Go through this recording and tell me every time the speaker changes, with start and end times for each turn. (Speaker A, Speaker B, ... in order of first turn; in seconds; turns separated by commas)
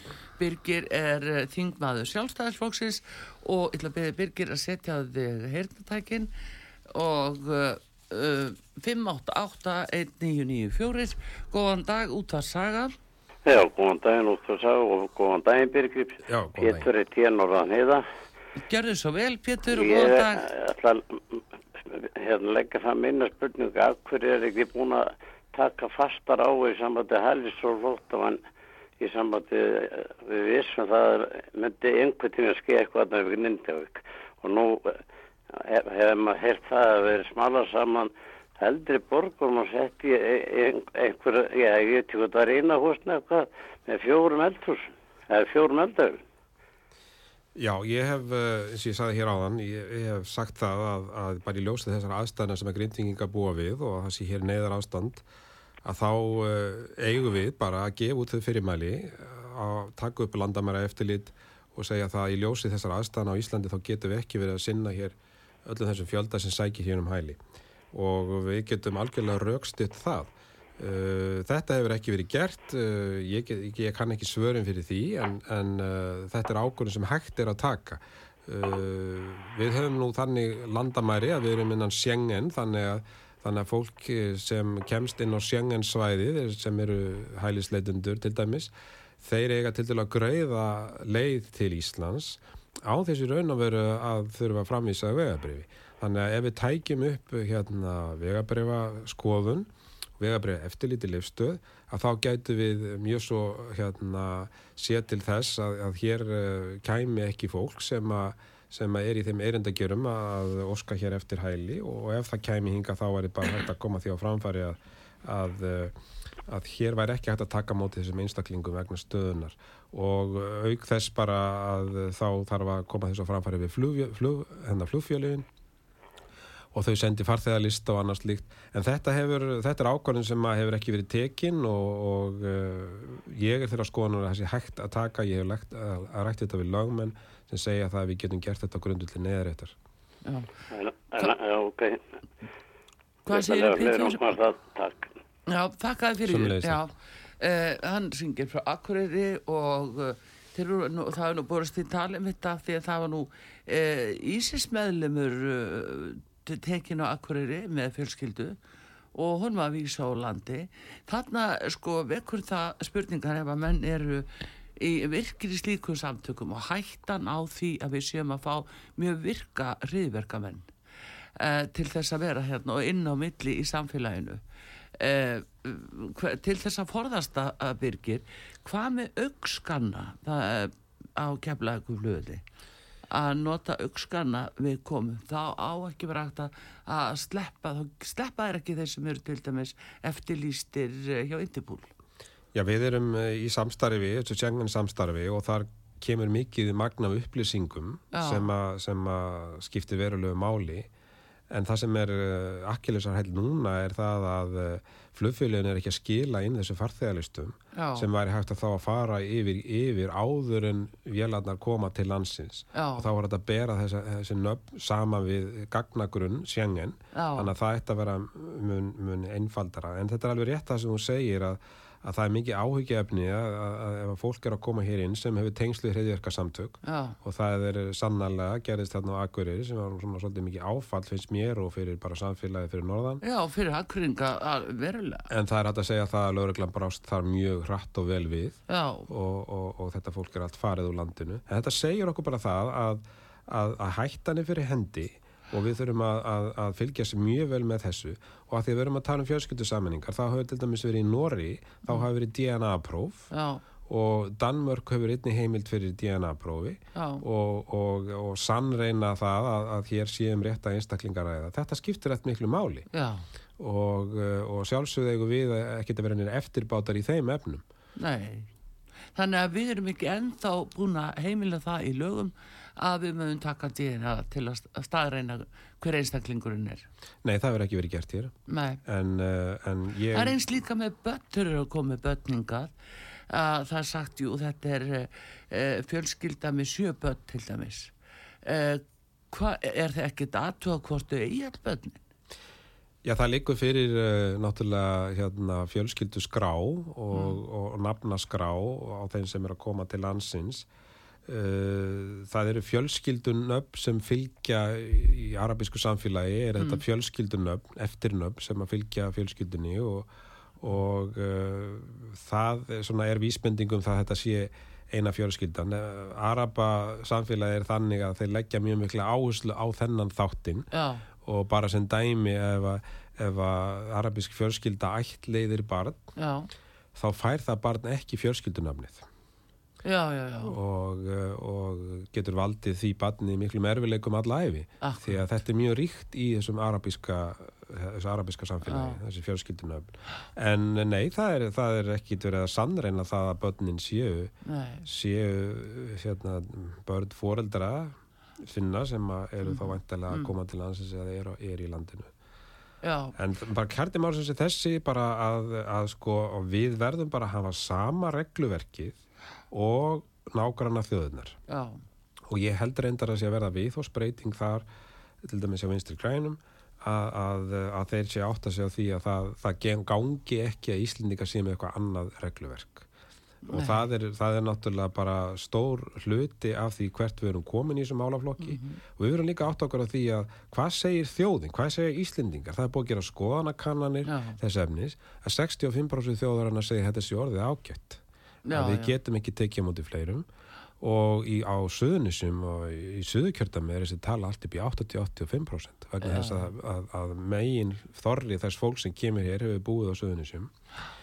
Speaker A: 0.4-6.3, Speaker A: 6.9-12.9, Speaker B: 13.5-18.0, Speaker C: 16.3-16.9, Speaker A: 18.6-20.5, Speaker B: 19.8-28.4, Speaker B: 29.0-35.0, Speaker B: 35.5-46.2, Speaker C: 47.6-55.2, Speaker C: 55.8-67.4, Speaker C: 67.9-116.0, Speaker C: 116.5-125.5, Speaker C: 126.7-139.8, Speaker A: 140.2-140.5, Speaker B: 140.7-142.0, Speaker A: 143.3-144.3, Speaker B: 143.3-145.1, Speaker A: 145.5-158.6, Speaker C: 146.3-146.8, Speaker A: 159.2-170.7, Speaker A: 171.4-174.4, Speaker A: 175.0-182.4, Speaker A: 183.1-191.9, Speaker C: 192.5-200.9, Speaker A: 198.1-198.5, Speaker C: 201.5-233.2, Speaker A: 207.8-208.1, Speaker A: 212.7-213.1, Speaker A: 217.1-217.5, Speaker A: 226.8-227.2, Speaker A: 233.2-235.3, Speaker C: 235.3-253.3, Speaker A: 238.7-239.1, Speaker A: 253.3-253.6, Speaker C: 253.9-262.9, Speaker A: 256.9-257.2, Speaker A: 262.9-263.3, Speaker C: 263.6-267.6, Speaker A: 268.0-268.5, Speaker A: 269.1-276.9, Speaker C: 277.2-278.3, Speaker A: 278.5-278.8, Speaker C: 278.9-280.4, Speaker A: 280.1-282.7, Speaker A: 283.3-287.9, Speaker A: 288.4-292.0, Speaker C: 293.0-300.7, Speaker A: 297.1-297.4, Speaker C: 301.3-310.1, Speaker C: 310.6-320.7, Speaker A: 320.7-321.0, Speaker C: 321.2-326.1, Speaker A: 326.2-326.5, Speaker C: 327.0-329.1, Speaker A: 329.9-330.6, Speaker C: 330.4-344.3, Speaker A: 334.8-335.2, Speaker A: 338.7-339.0, Speaker A: 344.4-344.9, Speaker C: 344.9-352.1, Speaker A: 349.4-350.3, Speaker A: 352.8-353.1, Speaker C: 353.1-359.0, Speaker C: 359.5-361.4, Speaker A: 361.5-361.8, Speaker C: 362.3-364.7, Speaker C: 365.2-372.9, Speaker A: 373.5-373.9, Speaker C: 373.5-390.3, Speaker A: 378.4-378.8, Speaker A: 384.1-384.4, Speaker A: 388.5-389.0, Speaker C: 390.8-400.5, Speaker A: 396.0-396.5